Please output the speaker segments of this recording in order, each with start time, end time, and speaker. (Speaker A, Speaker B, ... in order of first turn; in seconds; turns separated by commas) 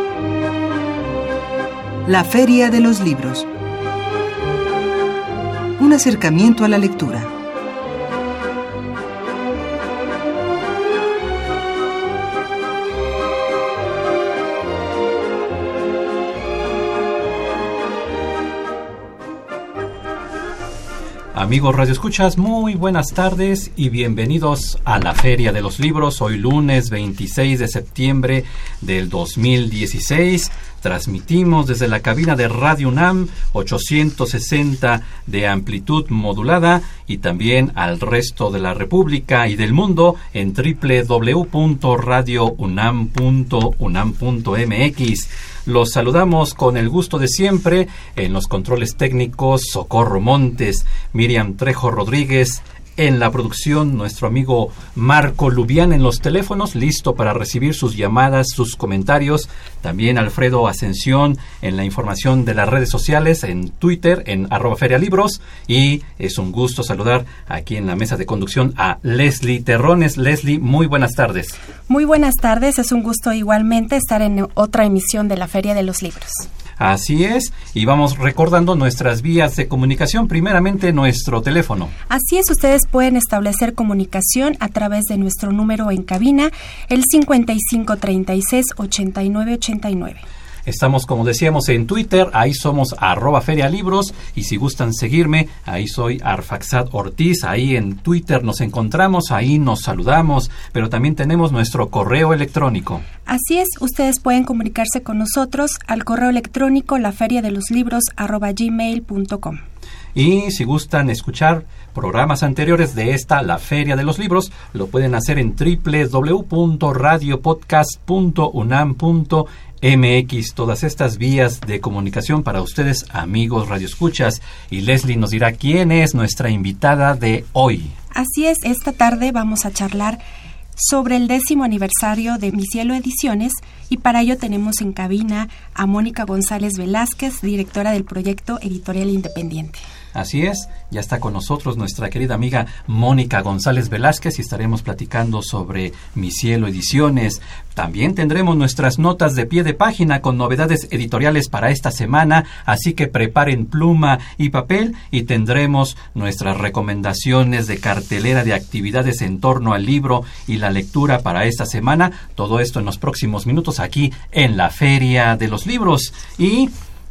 Speaker A: 2.1-3.5, Speaker A: 5.8-7.3, Speaker B: 21.3-71.6, Speaker C: 71.9-76.5, Speaker B: 76.8-81.9, Speaker C: 82.1-90.2, Speaker B: 90.7-103.0, Speaker C: 103.3-109.6, Speaker B: 110.2-127.9, Speaker C: 128.1-130.2, Speaker C: 130.8-139.8, Speaker B: 140.1-166.7